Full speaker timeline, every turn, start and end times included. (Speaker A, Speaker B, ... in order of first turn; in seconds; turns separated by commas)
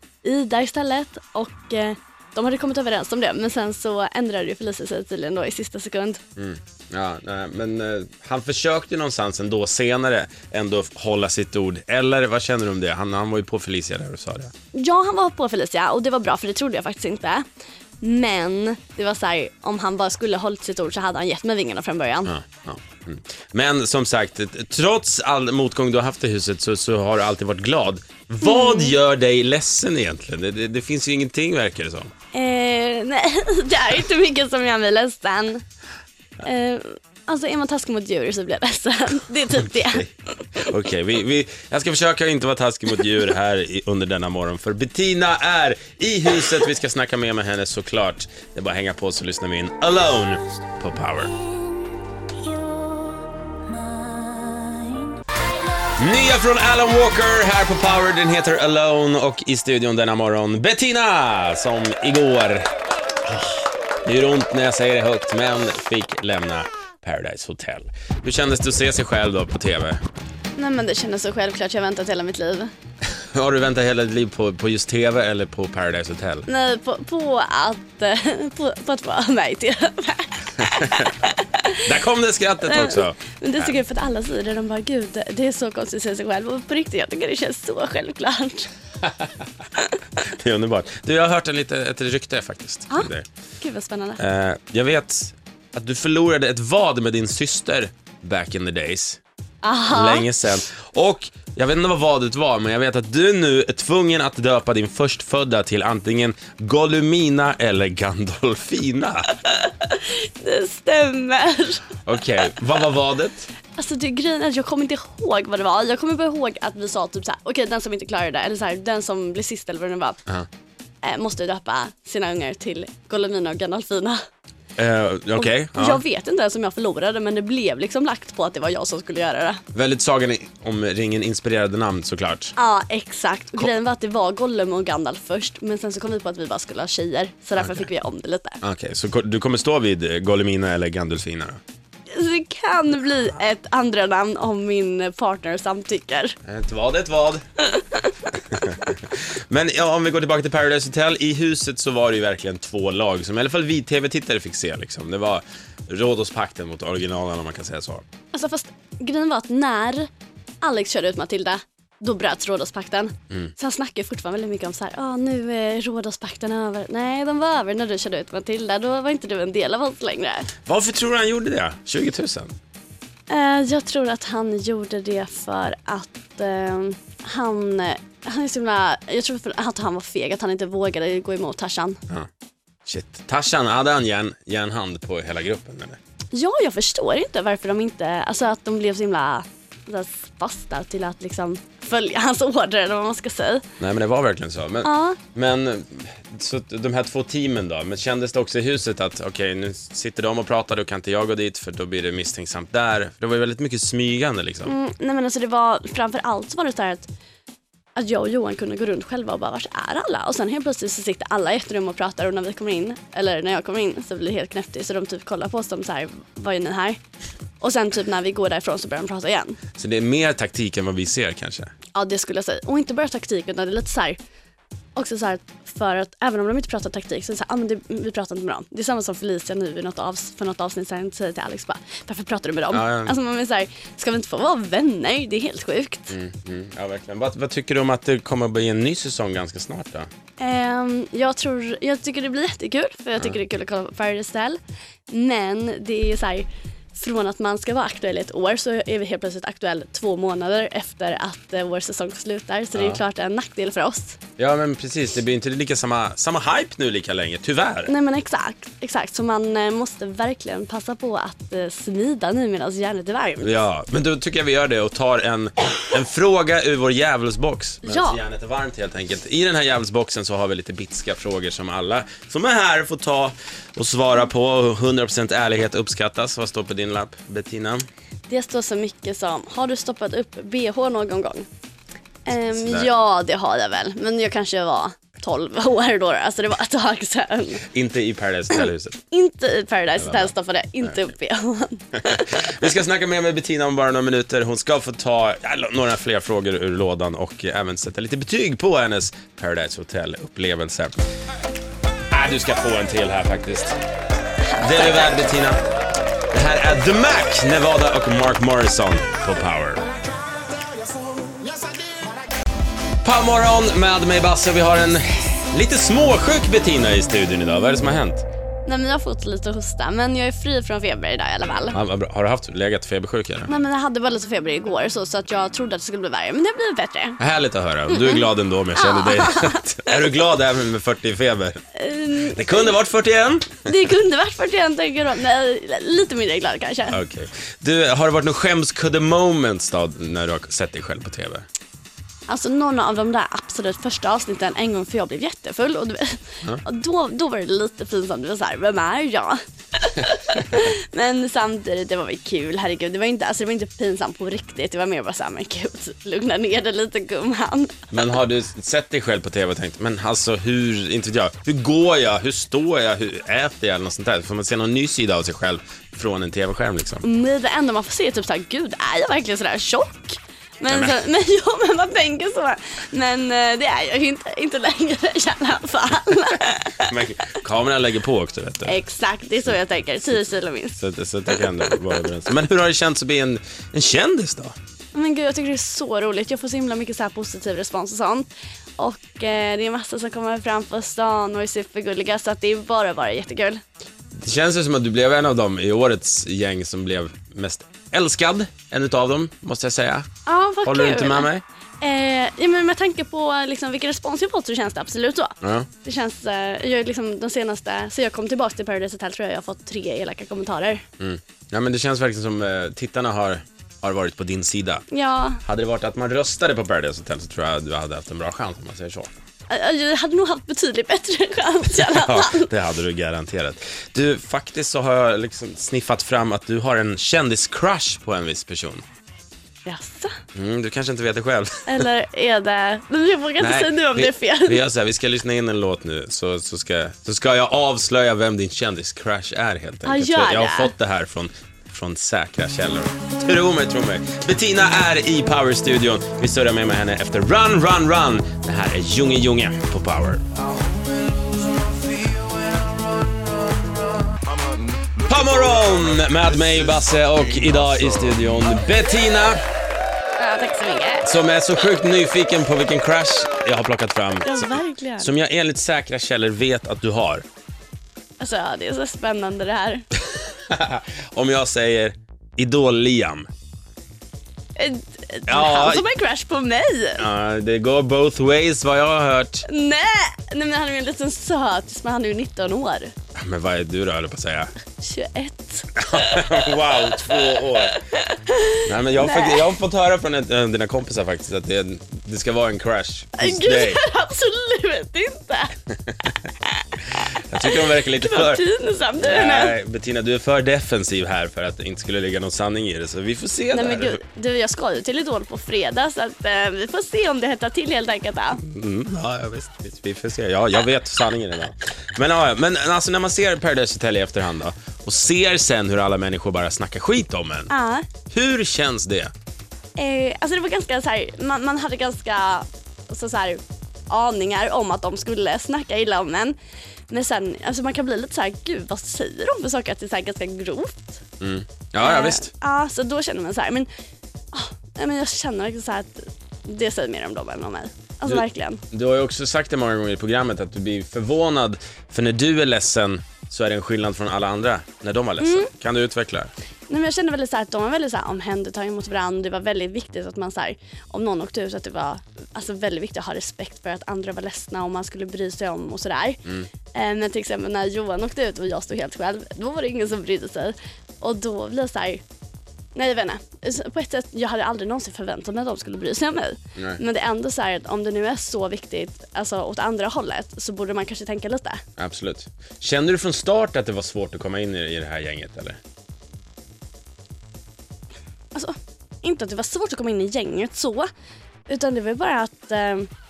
Speaker A: 0.2-6.2, Speaker B: 6.4-14.5, Speaker A: 14.7-17.4, Speaker A: 18.0-22.3, Speaker B: 22.2-32.1, Speaker A: 28.4-28.9, Speaker A: 32.3-35.6, Speaker A: 36.4-40.1, Speaker B: 39.5-51.3, Speaker A: 51.3-55.2, Speaker B: 56.0-62.7, Speaker B: 63.2-70.0, Speaker A: 70.5-72.7, Speaker B: 73.3-76.5, Speaker A: 76.5-81.9, Speaker B: 80.6-81.1, Speaker B: 81.8-83.8, Speaker A: 82.6-88.7, Speaker B: 90.2-93.3, Speaker A: 92.9-94.2, Speaker B: 94.2-99.2, Speaker A: 99.6-100.3, Speaker B: 99.9-109.3, Speaker A: 109.4-111.8, Speaker B: 112.0-113.5, Speaker A: 113.8-120.2, Speaker A: 121.0-124.2, Speaker B: 124.8-126.0, Speaker A: 125.4-129.6, Speaker B: 129.7-132.6, Speaker A: 132.6-138.6, Speaker B: 137.6-137.9, Speaker B: 138.6-141.6, Speaker A: 142.1-146.4, Speaker B: 146.4-147.4, Speaker A: 147.7-148.1, Speaker B: 148.5-158.1, Speaker A: 158.3-160.1, Speaker A: 160.6-170.5, Speaker B: 170.7-172.6, Speaker A: 173.3-182.0, Speaker B: 182.8-186.0, Speaker A: 186.3-193.6, Speaker B: 193.8-204.7, Speaker A: 194.8-195.2, Speaker A: 204.6-207.1, Speaker A: 207.9-217.0, Speaker A: 217.6-219.6, Speaker B: 219.8-221.7, Speaker A: 221.9-224.2, Speaker A: 224.9-236.1, Speaker B: 232.7-233.1, Speaker B: 236.1-240.1, Speaker A: 240.4-254.2, Speaker B: 252.8-253.0, Speaker B: 254.4-257.9, Speaker A: 257.9-263.6, Speaker B: 263.4-277.9, Speaker A: 267.8-268.2, Speaker A: 278.3-281.5, Speaker A: 282.3-287.6, Speaker B: 282.5-282.9, Speaker B: 287.7-289.0, Speaker A: 288.5-292.2, Speaker B: 290.0-290.9, Speaker B: 292.0-301.0, Speaker B: 302.1-303.8, Speaker A: 304.5-305.2, Speaker B: 304.6-305.6, Speaker B: 306.3-309.8, Speaker B: 313.0-318.2, Speaker A: 318.6-321.8, Speaker B: 321.7-323.5, Speaker A: 323.5-327.2, Speaker B: 327.2-331.6, Speaker A: 327.9-330.1, Speaker A: 331.8-332.8, Speaker B: 332.2-333.7, Speaker A: 333.7-337.0, Speaker B: 336.9-341.4, Speaker A: 342.3-358.1, Speaker B: 357.9-367.0, Speaker A: 367.0-376.9, Speaker B: 370.7-371.0, Speaker B: 376.8-378.8, Speaker A: 378.6-380.8, Speaker B: 380.8-384.6, Speaker A: 381.4-381.7, Speaker A: 384.9-393.6, Speaker B: 394.1-400.1, Speaker A: 400.2-401.3, Speaker B: 400.6-401.4, Speaker A: 401.8-410.8, Speaker B: 405.4-405.7, Speaker B: 411.0-414.9, Speaker A: 414.9-415.4, Speaker B: 415.4-419.1, Speaker A: 419.5-422.5, Speaker B: 421.8-428.8, Speaker A: 429.7-430.1, Speaker B: 430.3-431.9, Speaker A: 431.7-434.6, Speaker B: 433.4-450.2, Speaker A: 439.8-440.7, Speaker B: 455.1-459.4, Speaker A: 460.2-461.1, Speaker B: 461.0-467.2, Speaker A: 464.2-465.1, Speaker A: 468.2-469.8, Speaker B: 470.3-473.3, Speaker A: 474.6-477.1, Speaker B: 475.3-475.8, Speaker B: 477.0-479.4, Speaker A: 479.4-482.9, Speaker B: 483.1-484.5, Speaker A: 484.8-489.5, Speaker B: 485.7-487.8, Speaker B: 488.7-493.8, Speaker A: 493.2-495.6, Speaker B: 497.2-498.4, Speaker A: 497.4-499.6, Speaker B: 499.0-504.0, Speaker A: 503.5-508.4, Speaker B: 508.4-517.5, Speaker A: 517.5-517.9, Speaker B: 518.1-519.1, Speaker A: 519.8-526.4, Speaker A: 526.9-530.9, Speaker B: 531.2-532.3, Speaker A: 531.8-533.7, Speaker A: 534.3-538.6, Speaker B: 538.1-546.3, Speaker A: 545.2-545.5, Speaker A: 546.7-562.0, Speaker A: 562.7-571.6, Speaker B: 571.8-575.6, Speaker A: 578.3-580.9, Speaker A: 581.5-582.9